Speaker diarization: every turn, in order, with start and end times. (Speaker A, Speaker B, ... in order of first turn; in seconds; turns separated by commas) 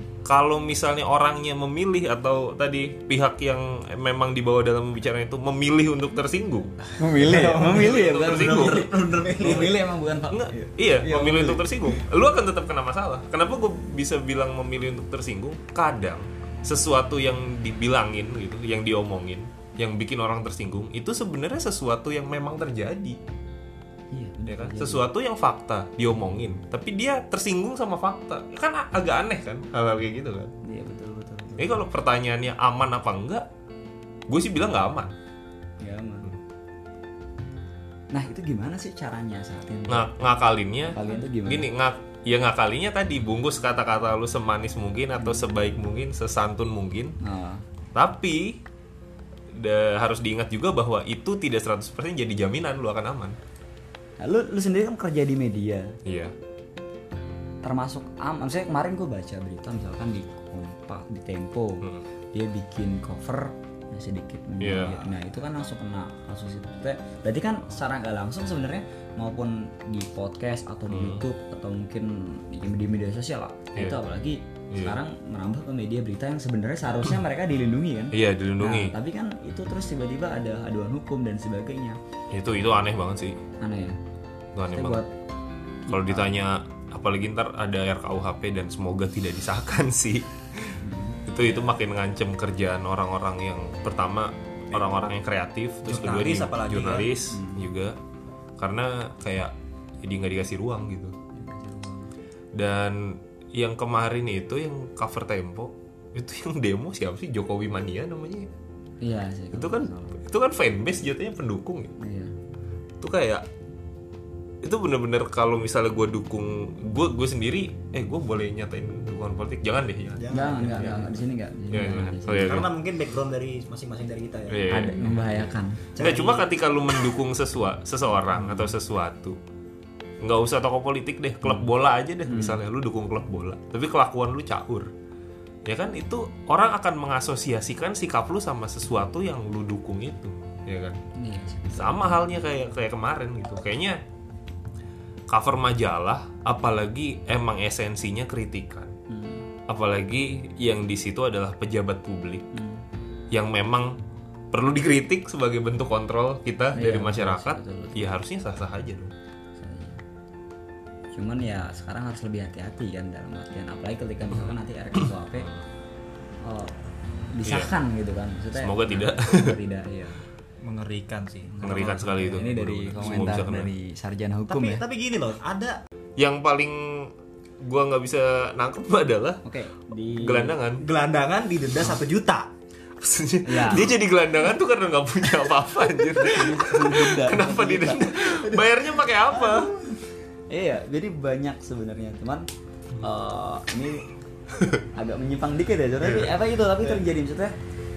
Speaker A: 0.2-6.7, Speaker B: 6.8-9.8, Speaker C: 7.0-11.8, Speaker A: 7.6-8.9, Speaker A: 10.3-23.2, Speaker C: 24.1-25.1, Speaker A: 24.5-30.5, Speaker C: 30.6-31.8, Speaker A: 31.6-33.5, Speaker A: 34.3-35.1, Speaker C: 35.8-36.3, Speaker C: 38.1-40.1, Speaker A: 39.9-47.1, Speaker C: 40.9-41.7, Speaker C: 45.2-45.4, Speaker C: 47.2-47.6, Speaker A: 47.9-48.6, Speaker A: 49.5-53.4, Speaker C: 54.2-56.0, Speaker A: 56.0-56.3, Speaker C: 57.6-82.0, Speaker A: 64.6-65.0, Speaker A: 70.9-71.2, Speaker A: 73.7-74.0, Speaker A: 74.7-75.0, Speaker A: 78.1-78.9, Speaker A: 82.3-83.4, Speaker C: 83.6-84.0, Speaker A: 84.5-85.0, Speaker C: 84.7-85.1, Speaker C: 85.8-86.3, Speaker A: 85.9-98.0, Speaker C: 90.8-91.8, Speaker B: 95.8-97.1, Speaker C: 97.3-97.7, Speaker A: 98.6-101.1, Speaker C: 101.3-102.1, Speaker A: 102.5-108.5, Speaker C: 109.0-110.2, Speaker A: 109.5-111.9, Speaker C: 112.0-112.3, Speaker A: 113.0-113.5, Speaker A: 114.6-121.0, Speaker B: 120.2-121.1, Speaker C: 120.3-122.7, Speaker A: 121.7-122.7, Speaker B: 122.4-124.7, Speaker A: 124.5-129.4, Speaker C: 124.7-125.9, Speaker B: 126.0-126.5, Speaker C: 128.3-128.7, Speaker A: 130.2-134.9, Speaker C: 131.4-131.7, Speaker C: 132.2-132.6, Speaker A: 135.7-141.0, Speaker C: 141.2-142.2, Speaker A: 141.7-144.0, Speaker A: 145.3-148.9, Speaker C: 149.1-149.5, Speaker A: 149.7-152.4, Speaker C: 152.5-152.8, Speaker A: 153.3-154.0, Speaker A: 154.5-159.1, Speaker C: 156.7-158.1, Speaker C: 159.6-160.0, Speaker C: 161.1-165.5, Speaker A: 165.4-165.6, Speaker C: 166.4-166.7, Speaker C: 167.3-170.2, Speaker A: 167.4-167.7, Speaker A: 168.5-169.6, Speaker B: 170.6-171.7, Speaker C: 171.5-174.8, Speaker A: 171.6-173.7, Speaker B: 174.5-175.8, Speaker A: 176.2-179.4, Speaker C: 179.4-180.6, Speaker A: 180.1-180.8, Speaker B: 180.8-182.5, Speaker A: 183.0-189.7, Speaker C: 183.4-183.9, Speaker C: 186.2-188.4, Speaker B: 189.4-189.7, Speaker C: 190.5-194.1, Speaker A: 194.6-194.8, Speaker C: 194.9-197.5, Speaker A: 196.0-196.3